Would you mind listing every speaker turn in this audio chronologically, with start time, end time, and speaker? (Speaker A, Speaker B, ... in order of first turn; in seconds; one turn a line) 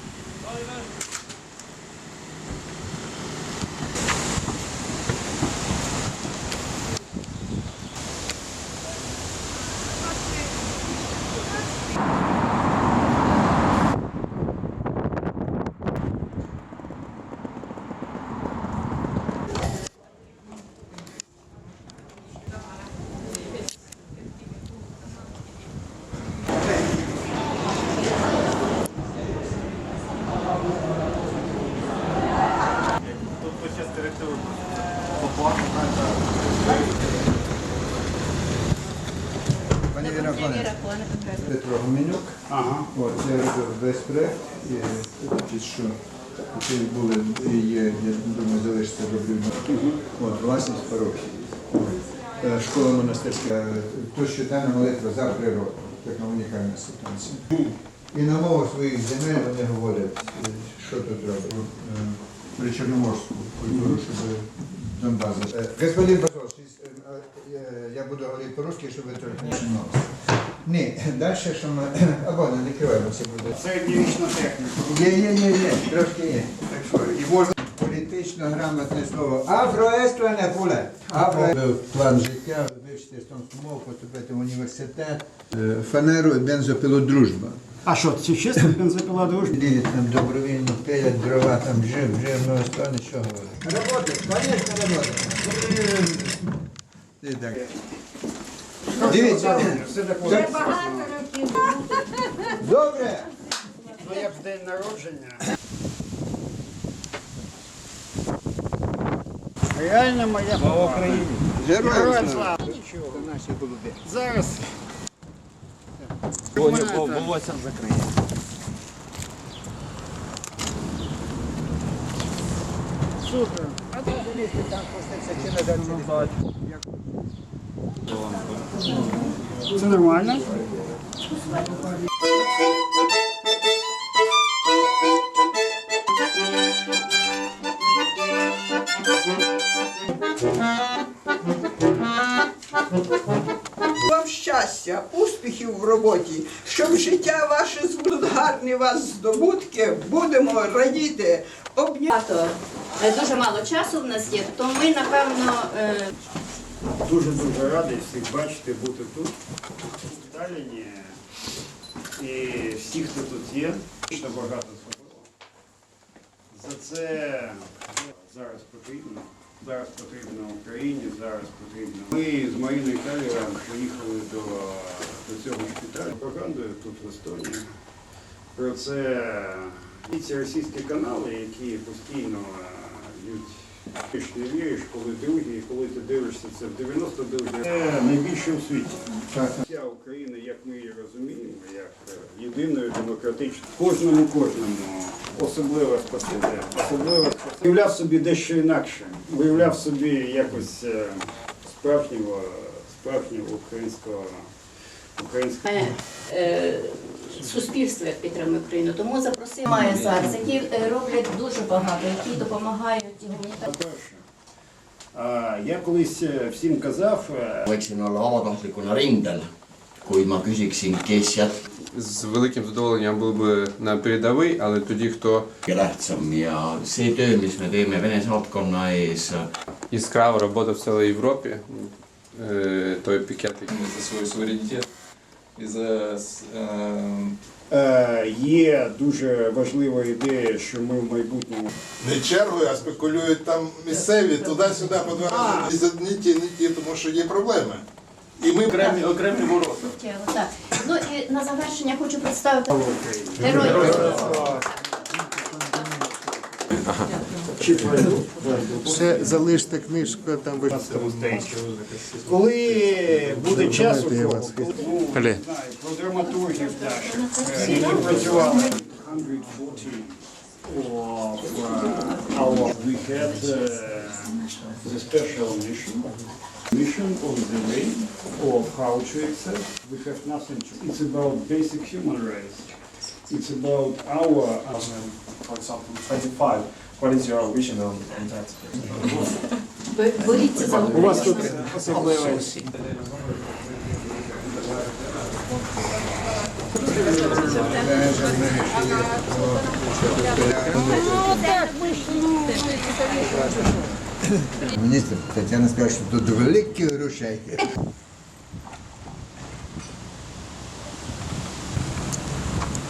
Speaker A: 39.9-40.8
Speaker B: 40.0-41.4
Speaker A: 41.4-42.3
Speaker C: 42.5-42.9
Speaker A: 42.9-46.0
Speaker A: 46.5-73.5
Speaker C: 49.7-50.0
Speaker C: 73.5-75.0
Speaker A: 74.8-87.6
Speaker C: 87.8-89.6
Speaker A: 89.5-96.4
Speaker A: 97.2-97.6
Speaker C: 98.9-101.4
Speaker A: 99.0-100.5
Speaker A: 102.5-103.3
Speaker C: 103.9-105.4
Speaker C: 109.7-113.3
Speaker A: 111.4-112.6
Speaker A: 113.1-114.0
Speaker C: 114.0-114.7
Speaker C: 116.5-117.3
Speaker C: 123.2-124.0
Speaker A: 124.0-126.3
Speaker C: 129.7-130.5
Speaker D: 144.0-152.1
Speaker B: 152.1-156.1
Speaker C: 157.0-159.3
Speaker C: 160.0-161.2
Speaker C: 162.2-165.3
Speaker C: 166.5-177.7
Speaker C: 178.5-204.5
Speaker A: 189.3-189.6
Speaker C: 205.2-205.7
Speaker B: 205.6-213.7
Speaker C: 213.6-214.2
Speaker C: 215.1-217.7
Speaker E: 217.7-219.5
Speaker E: 220.0-221.6
Speaker F: 221.9-225.4
Speaker E: 225.7-229.5
Speaker F: 229.9-233.7
Speaker G: 233.7-234.8
Speaker G: 235.6-237.3
Speaker C: 237.7-241.7
Speaker H: 242.0-247.8
Speaker B: 244.2-245.0
Speaker C: 245.2-245.7
Speaker H: 248.4-248.8
Speaker B: 248.7-252.7
Speaker I: 249.2-249.7
Speaker C: 252.7-254.6
Speaker B: 253.4-254.2
Speaker C: 255.3-256.0
Speaker C: 257.6-259.3
Speaker H: 259.1-260.7
Speaker C: 260.5-276.1
Speaker A: 264.2-264.7
Speaker C: 276.7-282.7
Speaker C: 283.3-284.8
Speaker I: 284.7-289.3
Speaker B: 289.9-291.6
Speaker I: 290.6-292.6
Speaker C: 291.7-292.3
Speaker A: 297.4-301.6
Speaker C: 301.5-302.4
Speaker A: 304.4-307.7